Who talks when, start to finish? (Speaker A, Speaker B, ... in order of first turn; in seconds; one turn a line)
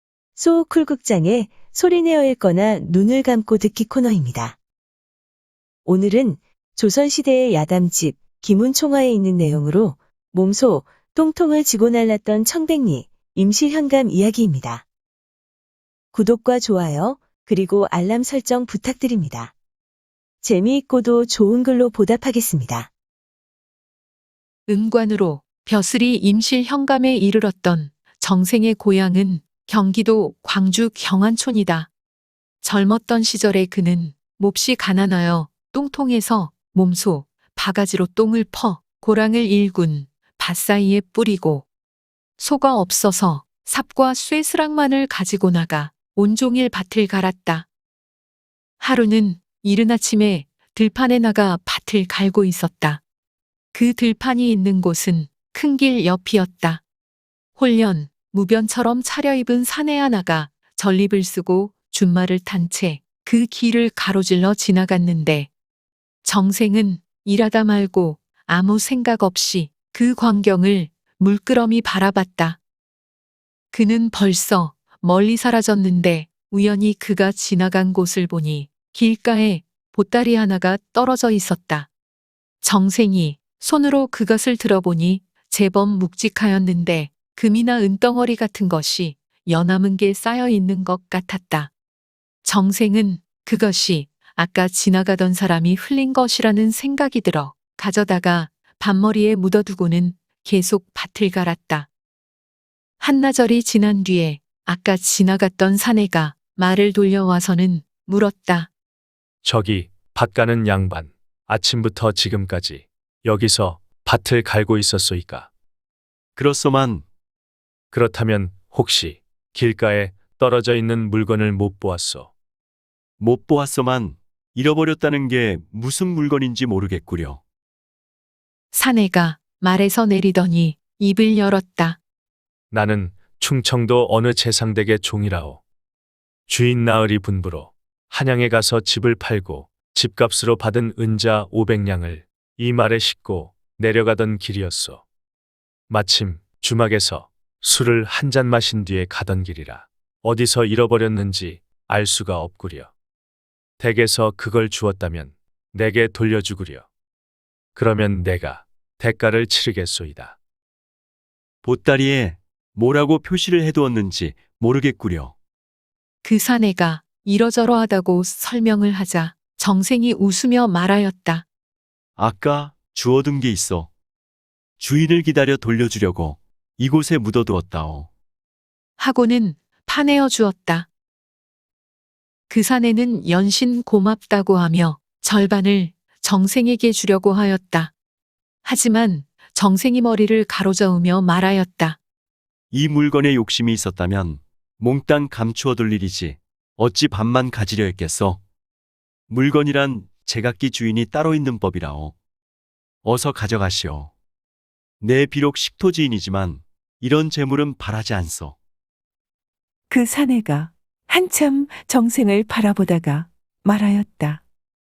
Speaker A: 0.4-4.5
Speaker A: 5.8-14.8
Speaker A: 16.1-19.5
Speaker A: 20.4-22.9
Speaker B: 24.7-31.9
Speaker B: 32.6-41.7
Speaker B: 42.4-47.7
Speaker B: 48.8-53.0
Speaker B: 53.7-56.8
Speaker B: 57.5-65.5
Speaker B: 66.2-72.6
Speaker B: 73.7-81.9
Speaker B: 82.6-91.7
Speaker B: 92.4-101.9
Speaker B: 103.0-108.7
Speaker C: 109.4-115.5
Speaker D: 116.3-117.0
Speaker C: 117.9-122.3
Speaker D: 123.2-127.4
Speaker B: 128.7-132.0
Speaker C: 132.7-135.6
Speaker C: 136.5-145.0
Speaker C: 145.9-152.9
Speaker C: 153.8-156.8
Speaker C: 157.7-160.4
Speaker D: 161.6-165.3
Speaker B: 166.2-171.4
Speaker D: 172.2-173.9
Speaker D: 174.8-178.1
Speaker B: 179.0-180.9
Speaker B: 182.5-187.9
Speaker B: 188.6-192.0
Speaker D: 192.7-198.4
Speaker D: 199.3-202.2
Speaker D: 203.0-204.1
Speaker D: 205.0-208.6
Speaker E: 209.9-214.4